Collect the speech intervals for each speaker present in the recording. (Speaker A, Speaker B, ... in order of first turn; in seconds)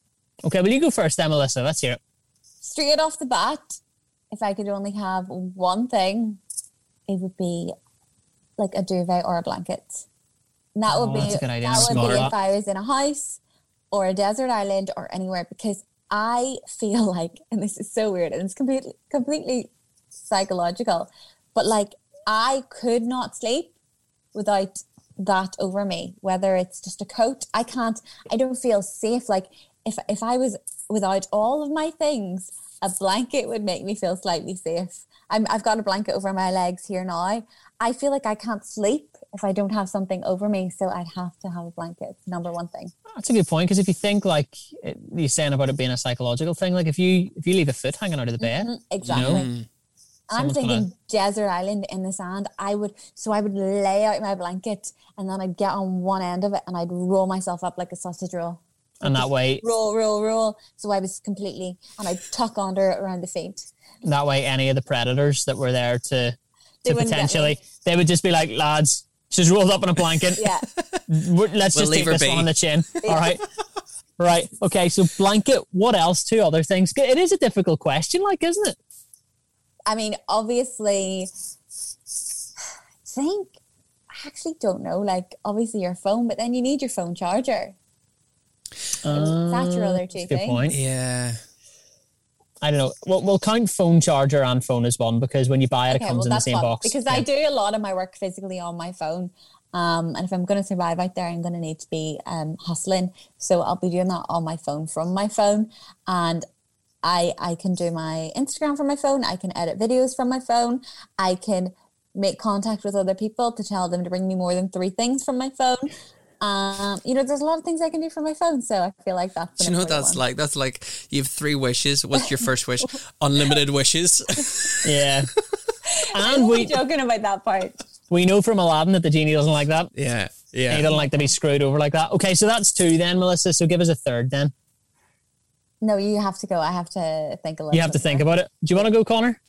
Speaker A: 0.4-2.0, 10.9-12.3, 43.1-49.5, 50.4-50.9, 59.0-59.6, 64.0-70.5, 71.1-73.4, 74.2-78.8, 89.0-90.8, 92.6-97.3, 124.8-125.3, 126.1-126.8, 128.1-129.9, 130.7-134.5, 137.7-139.4
Speaker B: 2.6-3.8, 4.3-6.4, 7.1-7.8, 8.6-10.1, 10.8-13.4, 13.9-19.7, 20.3-23.7, 24.3-42.9, 48.4-49.5, 50.3-63.7, 66.8-67.6, 70.4-70.7, 73.0-73.4, 79.9-81.3, 83.0-83.5, 84.1-87.8, 89.1-90.6, 95.9-106.4, 107.0-120.2, 125.9-127.8, 130.9-131.3, 135.8-138.2
Speaker C: 11.8-12.3, 49.0-49.7, 71.8-72.5, 90.7-91.4, 119.6-125.7, 129.9-130.9